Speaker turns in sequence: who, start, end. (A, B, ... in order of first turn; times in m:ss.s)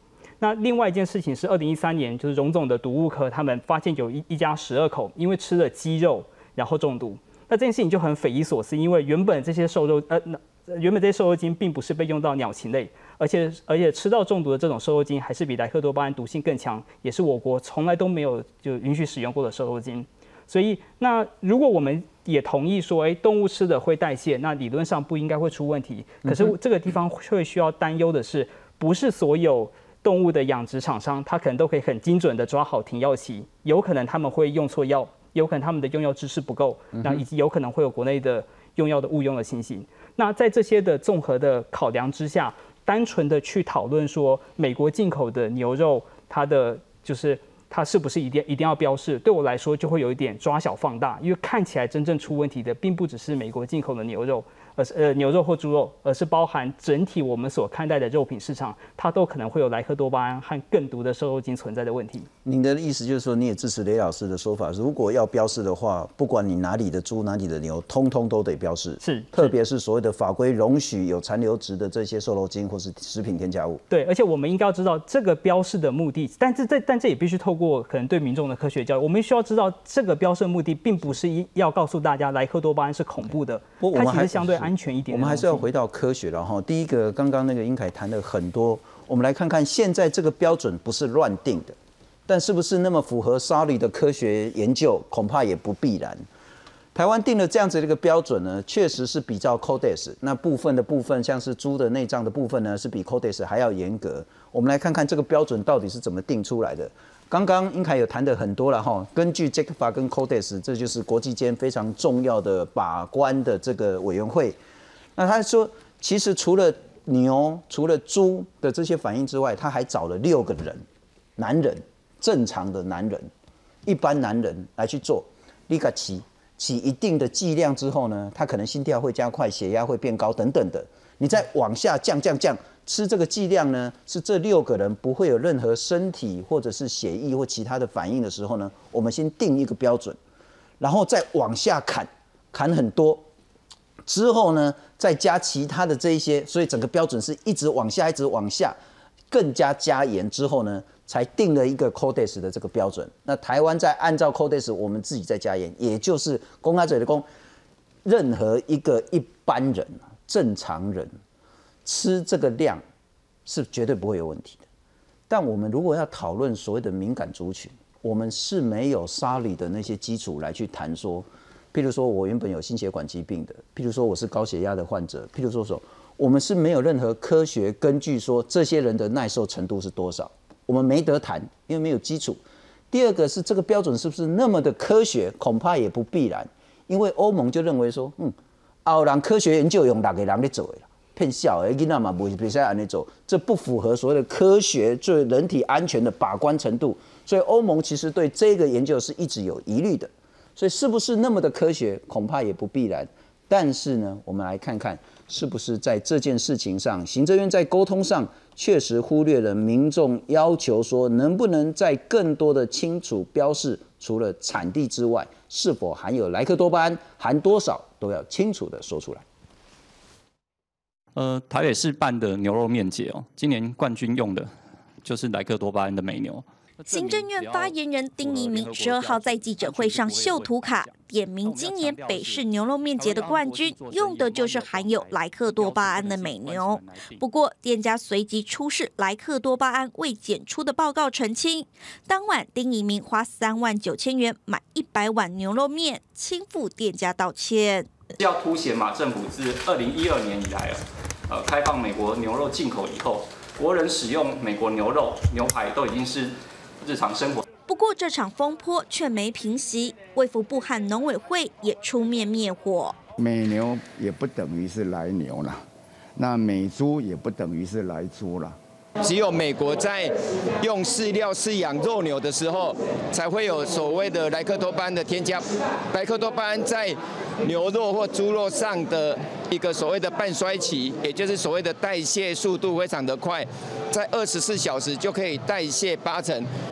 0:00.4-1:02.3 A
0:26.2-0:26.5 B
1:02.4-1:13.8 B
1:09.0-1:09.5 A
1:13.9-1:25.6 A
1:23.8-1:36.2 B
1:36.9-1:54.6 B
1:55.2-2:00.8 B
2:01.4-2:03.3 B
2:03.8-2:20.2 B
2:20.8-2:23.2 B
2:24.0-2:28.8 B
2:29.3-2:37.2 B
2:38.0-2:41.2 B
2:41.8-2:42.8 B
2:43.4-2:44.6 B
2:45.3-3:39.2 B
3:41.2-3:44.5 C
3:45.0-3:52.4 C
3:46.9-4:07.9 D
3:53.0-3:57.2 C
4:08.2-4:10.8 E
4:11.3-4:17.4 E
4:17.7-4:23.0 D
4:23.2-4:25.6 F
4:26.2-4:28.6 F
4:29.0-4:46.5 G